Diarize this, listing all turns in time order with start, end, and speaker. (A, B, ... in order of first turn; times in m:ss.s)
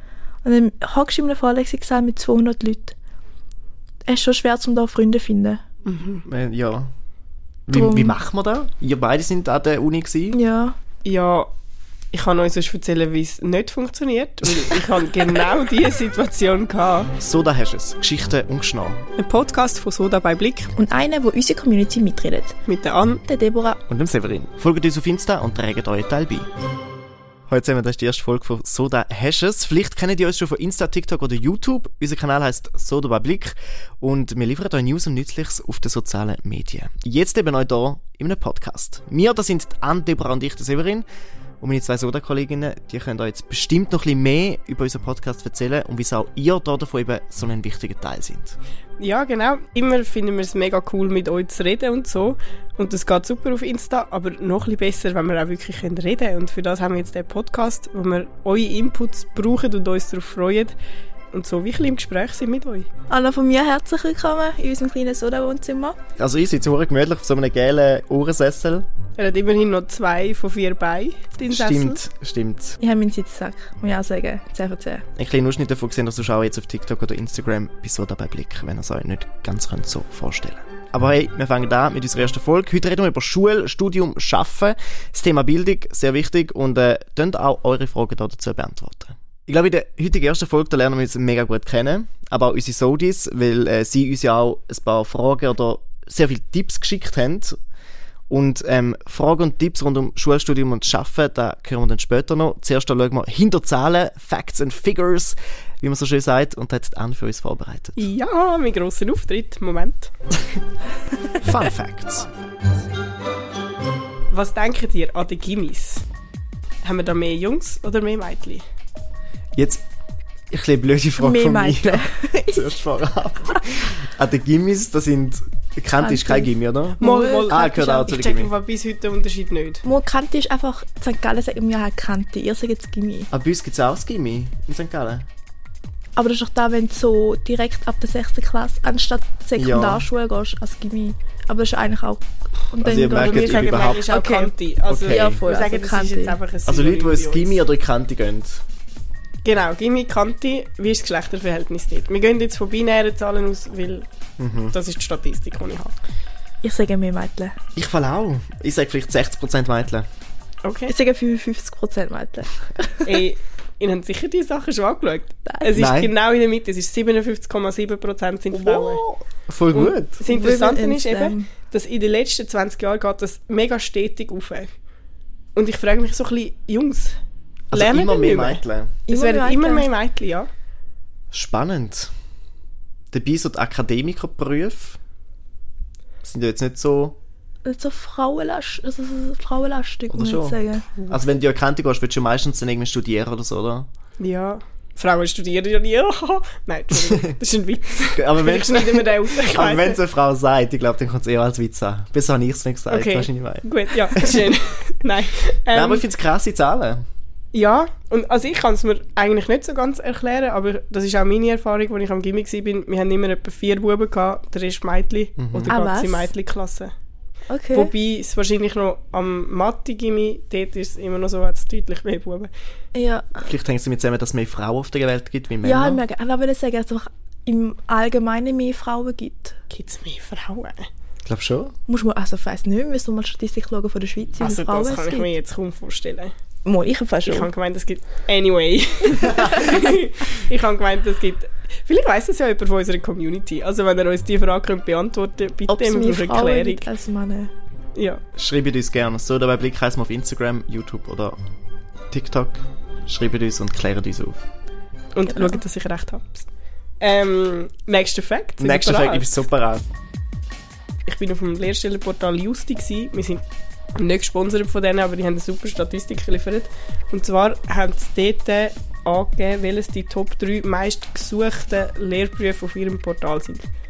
0:00.4-0:03.0 A
0:04.1-0:05.6 A
0:05.9-0:06.2 B
0:06.3-0:06.9 C
0:07.7-0:10.4 C
0:07.7-0:08.2 A
0:10.3-0:10.8 A
0:11.0-0:11.5 B
0:12.1-0:17.1 B
0:17.2-0:19.0 C
0:19.2-0:20.7 B
0:20.8-0:22.6 A
0:22.7-0:23.2 B
0:23.3-0:23.8 A
0:23.9-0:26.5 C
0:27.5-0:41.1 C
0:41.6-0:48.6 C
0:49.0-1:00.8 B
1:01.3-1:02.9 B
1:03.1-1:06.0 A
1:06.2-1:08.9 C
1:09.2-1:12.0 B
1:11.5-1:12.8 C
1:12.8-1:15.0 A
1:15.2-1:37.6 C
1:38.3-1:48.1 C
1:48.0-1:50.1 B
1:51.4-1:52.3 C
1:54.3-1:56.0 B
1:56.8-1:58.6 B
1:59.6-1:59.8 C
2:00.5-2:08.5 C
2:01.2-2:02.8 A
2:06.0-2:08.1 A
2:07.0-2:09.8 B
2:09.8-2:13.3 A
2:13.3-2:15.3 C
2:16.2-2:24.5 A
2:19.6-2:20.1 C
2:22.8-2:24.1 C
2:23.1-2:27.6 B
2:24.9-2:25.4 C
2:25.0-2:26.4 A
2:26.7-2:28.6 C
2:29.4-2:34.1 B
2:34.4-2:34.8 C
2:34.7-2:35.9 B
2:36.6-2:37.6 A
2:37.8-2:40.1 C
2:40.6-2:40.9 B
2:40.9-2:43.1 A
2:43.0-2:49.0 B
2:45.7-2:46.1 C
2:48.5-2:50.2 C
2:49.7-2:54.7 B
2:50.3-2:51.5 A
2:55.6-2:57.2 B
2:57.7-2:59.0 C
2:57.7-3:00.5 B
2:59.1-2:59.9 A
3:01.3-3:02.1 C
3:03.1-3:05.0 C
3:06.2-3:07.2 C
3:07.6-3:10.9 A
3:10.1-3:13.9 C
3:14.2-3:20.0 B
3:18.1-3:24.5 C
3:22.9-3:26.0 B
3:25.7-3:27.0 C
3:27.5-3:36.9 B
3:35.4-3:35.8 C
3:35.7-3:36.3 A
3:37.5-3:37.9 A
3:37.7-3:42.5 B
3:43.0-3:43.5 A
3:43.4-3:46.0 C
3:45.6-3:49.6 A
3:49.7-3:50.9 B
3:51.3-3:51.8 C
3:51.9-3:55.3 A
3:54.4-3:56.3 B
3:56.6-3:57.5 A
3:57.3-4:06.9 B
3:59.1-3:59.8 C
4:05.7-4:07.5 A
4:08.0-4:08.2 B
4:08.4-4:11.4 C
4:12.1-4:14.4 C
4:15.1-4:16.5 B
4:15.3-4:15.6 A
4:17.0-4:19.3 B
4:18.6-4:19.8 C
4:21.1-4:23.4 B
4:24.0-4:33.6 B